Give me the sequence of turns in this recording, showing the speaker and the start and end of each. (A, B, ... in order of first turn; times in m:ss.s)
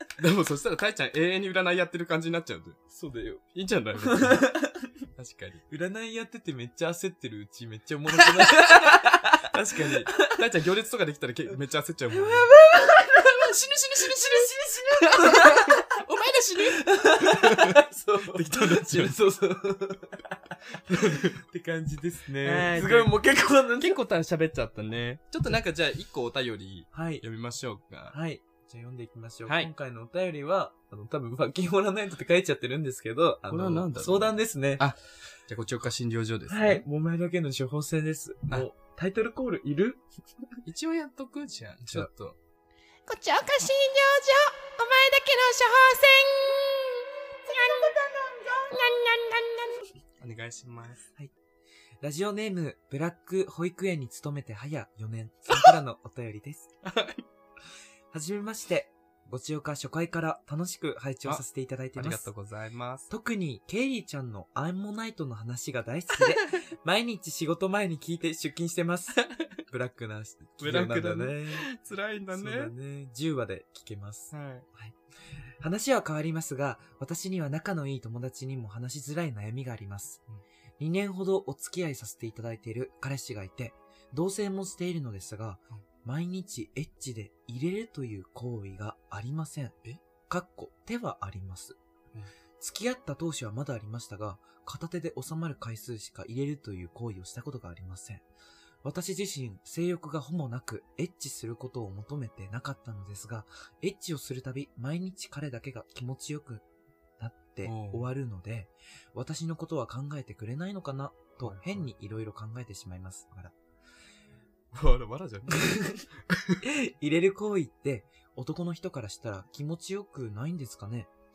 0:00.2-0:02.8 A
0:02.9-0:03.5 B
0:03.5-0:05.6 A
0:04.0-0:04.8 B
0:05.7-0:10.4 B
0:08.1-0:17.8 A
0:12.1-0:13.4 B
0:14.1-0:16.0 B
0:16.6-0:24.0 B
0:18.3-0:19.2 A
0:20.9-0:21.4 A
0:22.4-0:23.2 A
0:23.8-0:28.2 A
0:26.9-0:27.2 B
0:28.1-0:34.9 B
0:29.5-0:29.7 A
0:33.5-0:36.8 A
0:36.5-0:40.0 B
0:40.6-0:42.4 A
0:43.1-0:49.8 C
0:50.2-0:51.1 A
0:52.0-0:56.7 B
0:55.5-0:55.8 A
0:56.8-0:57.2 A
0:58.1-1:02.3 B
1:02.0-1:03.1 A
1:03.1-1:11.7 B
1:06.1-1:06.6 A
1:09.2-1:09.6 A
1:10.6-1:12.7 A
1:12.3-1:15.0 B
1:14.3-1:14.6 A
1:15.6-1:20.2 B
1:20.8-1:31.8 B
1:32.6-1:38.2 B
1:38.8-1:46.7 B
1:47.2-1:53.6 B
1:47.6-1:48.1 A
1:51.4-1:51.9 A
1:54.7-1:56.6 A
1:55.5-1:56.0 B
1:56.6-2:01.1 B